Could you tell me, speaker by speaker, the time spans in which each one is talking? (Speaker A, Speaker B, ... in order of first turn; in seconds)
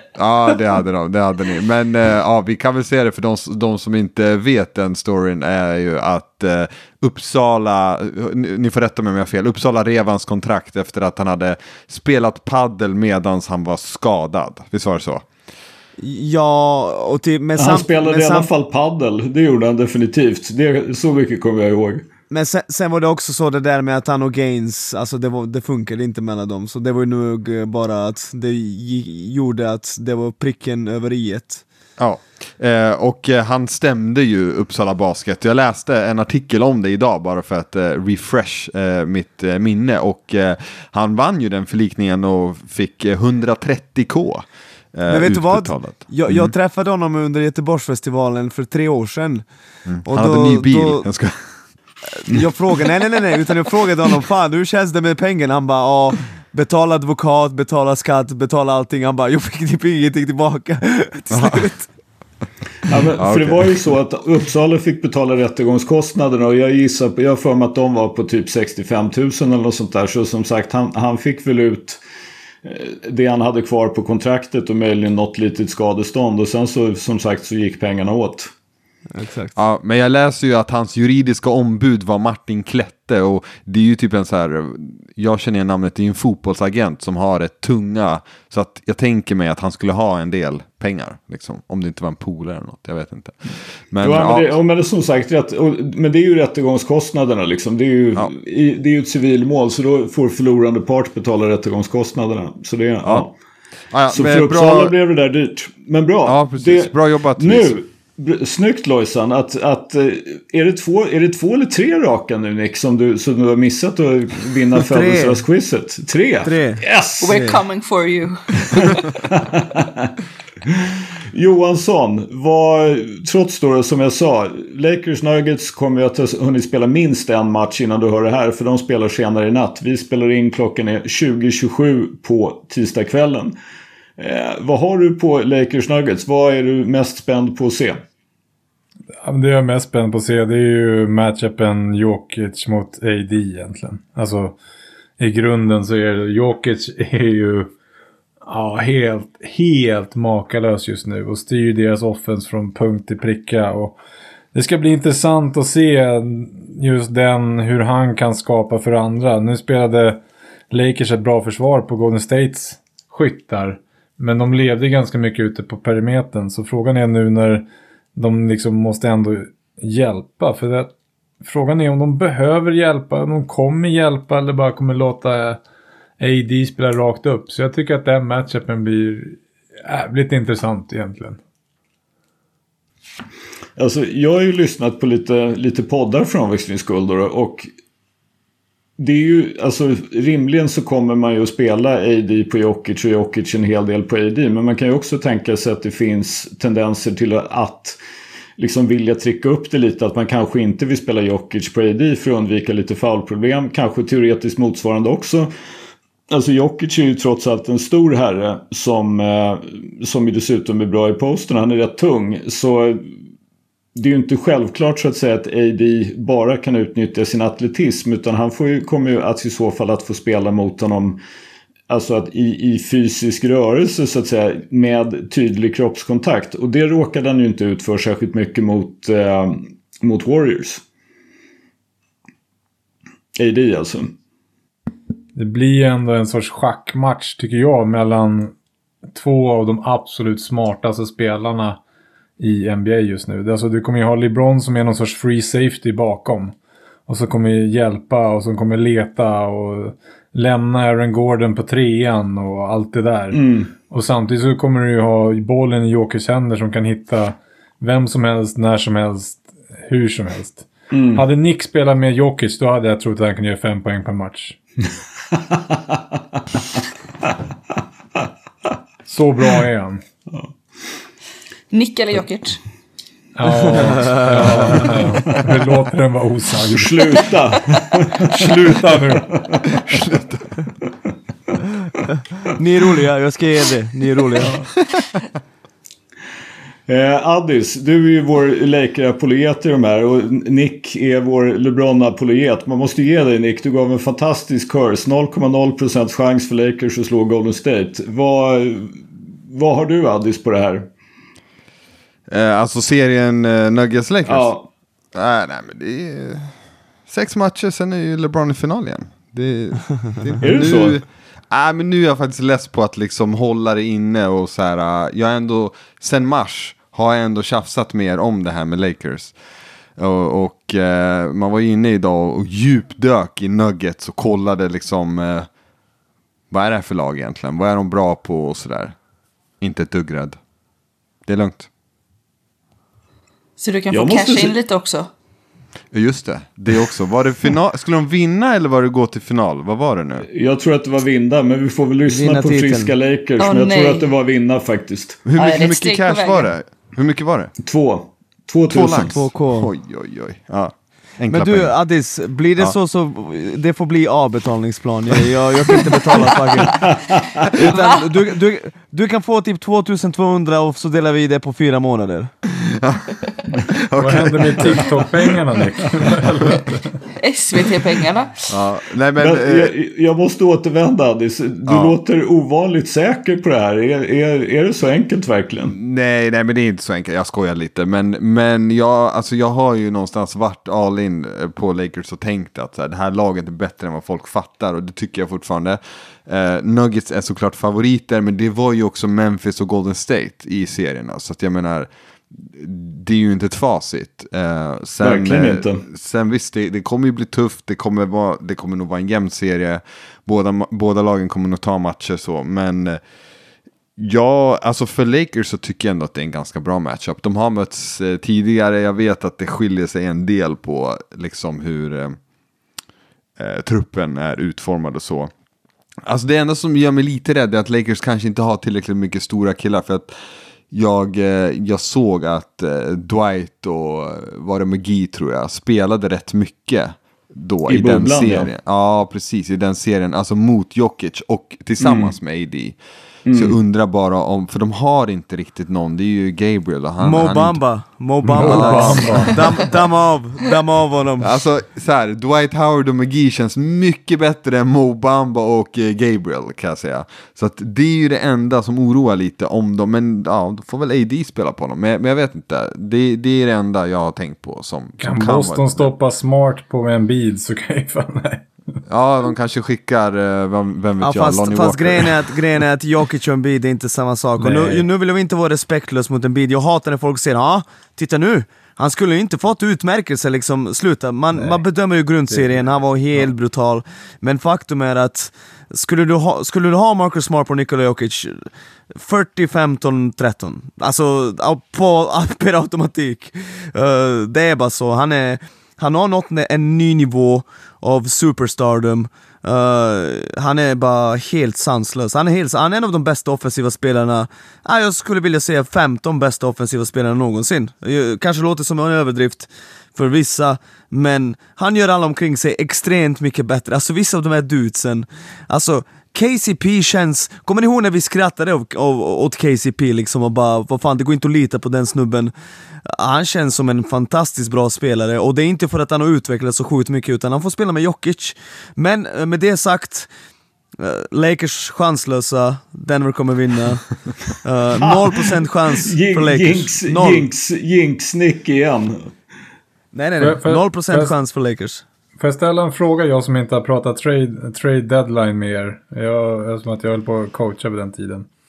Speaker A: 0.2-15.3, 32.0-46.5, 49.9-51.5, 52.3-52.8, 61.3-61.7, 62.9-63.8, 79.6-94.6, 103.9-104.9, 106.3-107.8, 279.8-280.6, 302.3-304.5, 305.1-306.6, 307.1-319.4, 320.0-325.5, 326.5-328.9, 329.6-330.4, 331.3-331.7, 335.9-340.3, 345.3-347.5, 348.7-351.7, 362.6-365.1, 366.0-366.5, 368.5-369.7, 371.7-371.9, 375.7-391.9, 392.4-403.0, 404.0-412.2, 413.4-415.3, 416.1-420.1, 420.7-432.8, 433.3-437.6, 438.4-439.7, 441.2-455.9, 458.9-462.4
Speaker B: 16.0-18.5, 22.3-31.6, 45.1-49.4, 50.0-51.1, 52.1-61.9, 79.1-79.5, 114.8-115.5, 116.4-117.6, 273.9-274.9, 282.5-284.7, 342.1-342.9, 348.9-349.7, 351.3-356.9, 357.6-362.3, 437.0-441.4, 461.0-512.3, 512.9-520.1, 520.8-527.3, 529.9-531.8
Speaker C: 17.6-22.1, 62.9-72.0, 72.6-78.5, 94.0-103.3, 104.1-117.4, 118.7-120.1, 121.3-133.6, 134.2-138.0, 183.8-187.7, 189.0-198.0, 198.6-205.5, 206.3-213.0, 213.9-221.2, 221.9-230.8, 233.4-234.2, 253.3-253.7, 260.9-261.3, 276.7-278.6, 279.3-279.8, 286.9-300.9, 304.3-304.7, 310.4-311.0, 333.9-334.6, 340.2-345.2, 347.6-349.2, 356.8-357.4, 369.2-375.8, 395.0-395.8, 427.7-428.5, 431.8-432.2, 433.3-433.6, 525.8-529.1
Speaker D: 117.2-119.2, 271.7-272.6, 333.6-335.1, 343.4-344.1, 345.4-346.5, 357.6-358.1, 367.2-368.5
Speaker E: 139.2-144.6, 145.2-147.7, 148.4-154.0, 154.5-175.6, 176.2-181.4, 235.3-238.5, 239.1-241.8, 242.4-246.6, 247.1-264.6, 269.1-270.0, 273.4-277.3, 278.2-279.4, 364.0-367.0, 438.2-439.5, 455.0-458.5, 464.4-464.9, 530.2-531.1, 532.2-538.3